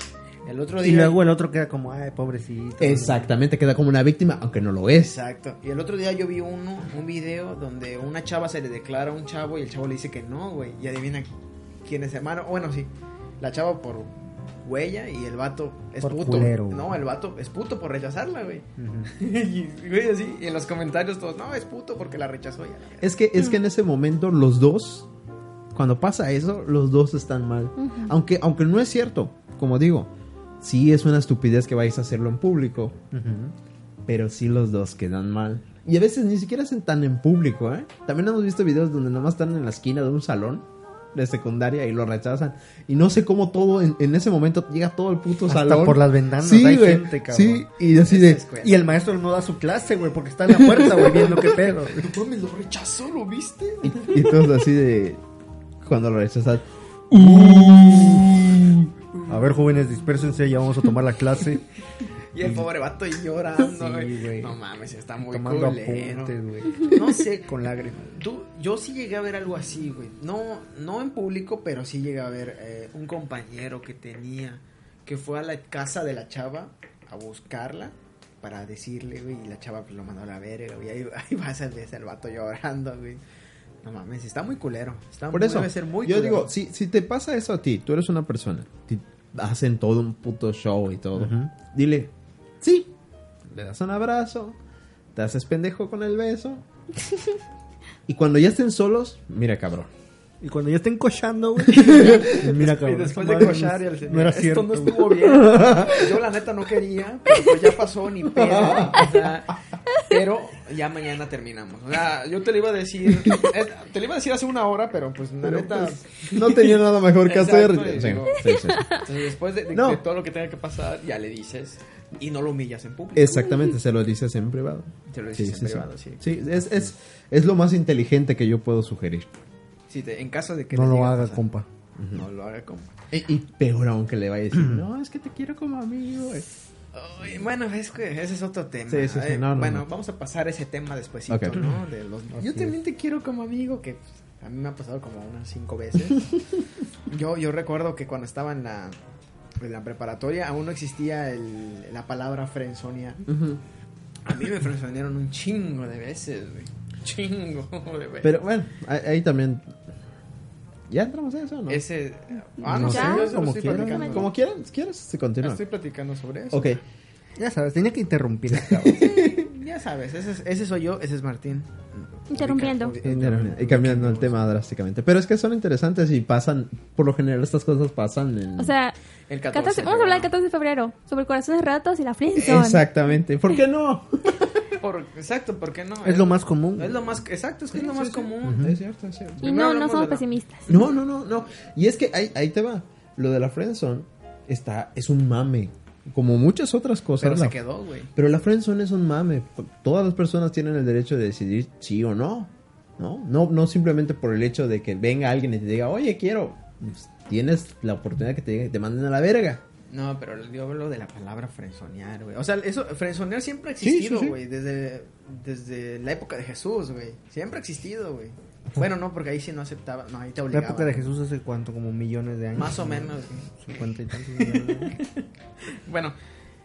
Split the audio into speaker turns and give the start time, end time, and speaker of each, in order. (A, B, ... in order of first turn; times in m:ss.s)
0:00.4-0:01.2 A
0:00.8-0:03.3 B
0:02.8-0:05.2 C
0:05.0-0:11.3 A
0:11.8-0:12.9 A
0:13.4-0:23.2 A
0:16.0-0:17.0 B
0:18.8-0:19.1 B
0:23.0-0:25.1 C
0:25.7-0:30.1 C
0:27.8-0:28.1 D
0:30.6-0:33.0 C
0:33.1-0:33.5 B
0:34.1-0:48.4 C
0:45.5-0:47.7 B
0:48.0-0:48.9 A
0:48.6-0:52.1 B
0:50.9-0:54.3 A
0:53.8-0:55.2 C
0:55.8-0:58.9 C
0:57.4-0:58.2 B
0:59.3-1:01.6 B
1:02.3-1:23.2 A
1:03.6-1:04.6 B
1:05.2-1:08.2 B
1:23.8-1:26.5 A
1:25.3-1:32.9 C
1:31.2-1:31.5 B
1:33.5-1:34.6 C
1:35.2-1:36.6 C
1:38.1-1:39.9 C
1:40.4-1:46.1 B
1:41.7-2:03.6 A
1:48.4-1:49.2 C
1:55.4-1:58.9 C
1:58.7-1:59.0 D
1:59.7-2:00.0 C
2:03.2-2:09.3 C
2:05.1-2:06.2 A
2:09.9-2:11.4 A
2:10.7-2:11.7 B
2:12.0-2:12.2 C
2:12.1-2:12.9 A
2:13.1-2:16.5 C
2:16.9-2:26.3 A
2:18.9-2:19.9 C
2:21.3-2:21.8 C
2:22.3-2:22.8 B
2:27.1-2:29.0 A
2:29.6-2:33.3 A
2:33.3-2:33.6 C
2:34.2-2:38.4 A
2:38.2-2:39.8 C
2:40.9-2:41.8 C
2:41.7-2:44.3 A
2:42.6-2:44.3 B
2:42.8-2:43.3 D
2:44.0-2:45.6 C
2:45.4-2:46.8 A
2:46.5-2:46.8 C
2:47.4-2:49.1 B
2:48.5-2:49.5 C
2:48.9-2:54.4 A
2:52.3-2:52.9 D
2:53.0-2:58.7 C
2:58.6-2:59.0 D
2:59.3-3:00.3 A
2:59.5-3:02.8 D
3:02.4-3:04.6 C
3:04.8-3:08.7 A
3:06.0-3:07.0 B
3:07.7-3:09.5 C
3:08.4-3:08.8 B
3:09.4-3:10.9 A
3:09.4-3:10.7 D
3:10.7-3:17.6 C
3:17.2-3:18.1 A
3:18.2-3:29.6 C
3:29.9-3:41.1 A
3:33.8-3:34.4 C
3:40.5-3:45.0 B
3:42.6-3:46.2 A